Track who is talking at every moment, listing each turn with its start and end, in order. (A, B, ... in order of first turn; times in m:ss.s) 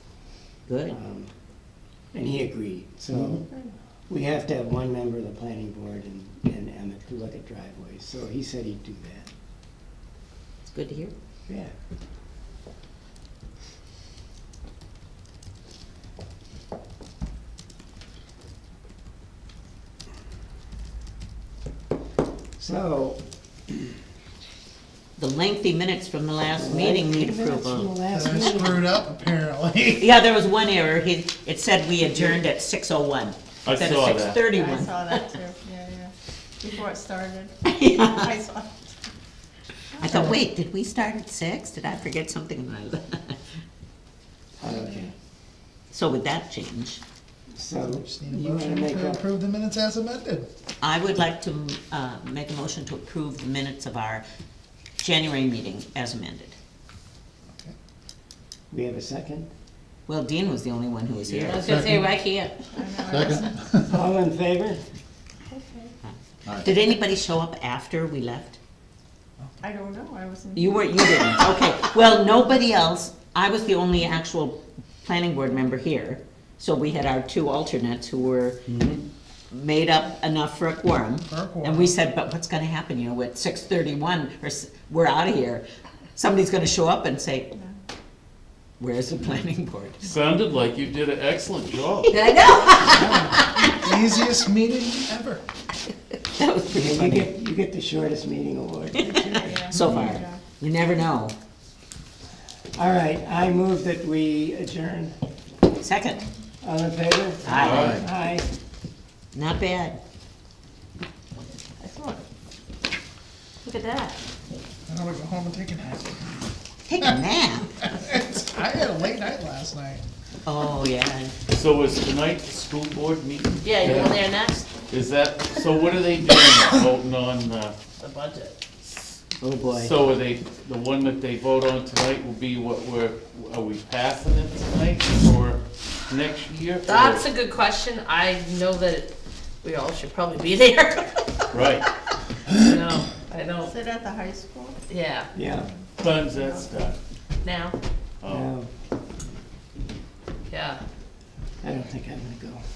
0:00.7-0:01.0 A
0:00.9-0:01.3 B
0:02.1-0:03.5 B
0:03.4-0:03.7 C
0:04.1-0:09.3 B
0:10.7-0:11.1 A
0:11.5-0:11.7 B
0:22.6-0:23.2 B
0:25.2-0:27.9 A
0:26.6-0:28.9 B
0:28.1-0:30.0 D
0:30.0-0:35.3 A
0:32.1-0:32.4 B
0:33.7-0:34.4 E
0:34.4-0:38.9 C
0:37.6-0:38.3 A
0:40.0-0:40.2 C
0:40.0-0:43.4 A
0:44.6-0:45.1 B
0:45.9-0:47.0 A
0:47.5-0:49.2 B
0:47.8-0:50.4 D
0:50.8-0:54.2 A
0:55.0-0:56.6 A
0:58.7-0:59.5 B
1:00.1-1:01.8 A
1:01.4-1:02.7 F
1:01.7-1:02.0 D
1:02.7-1:03.8 C
1:03.1-1:03.6 D
1:03.8-1:04.8 B
1:05.5-1:05.9 C
1:06.5-1:08.6 A
1:09.6-1:11.3 C
1:10.6-1:18.6 A
1:18.7-1:19.0 E
1:19.5-1:25.6 A
1:21.3-1:21.9 E
1:26.2-1:27.5 A
1:28.8-1:30.1 A
1:30.0-1:32.1 E
1:32.1-1:33.7 A
1:32.1-1:33.2 F
1:33.0-1:35.4 D
1:36.3-1:37.3 A
1:36.7-1:39.7 B
1:39.2-1:40.4 C
1:39.2-1:41.3 A
1:42.7-1:45.2 B
1:45.8-1:46.2 A
1:46.6-1:48.5 B
1:47.4-1:48.0 A
1:47.5-1:48.0 E
1:49.3-1:50.0 A
1:51.8-1:52.2 C
1:53.6-1:54.2 F
1:54.9-1:56.0 D
1:56.9-1:57.8 A
1:58.0-1:59.8 D
1:58.4-1:58.6 E
2:00.5-2:01.3 A
2:01.5-2:04.2 E
2:03.6-2:04.7 F
2:04.9-2:07.8 E
2:08.0-2:08.6 F
2:08.8-2:09.2 E
2:09.4-2:09.9 A
2:09.7-2:17.3 E
2:16.9-2:19.1 F
2:19.6-2:21.6 F
2:21.5-2:21.9 E
2:22.5-2:23.8 F
2:23.6-2:24.8 C
2:24.9-2:25.3 F
2:25.3-2:25.7 B
2:25.7-2:26.8 C
2:26.0-2:27.0 E
2:27.4-2:27.8 F
2:28.2-2:28.5 E
2:28.3-2:28.7 B
2:30.5-2:30.8 F
2:31.6-2:32.6 B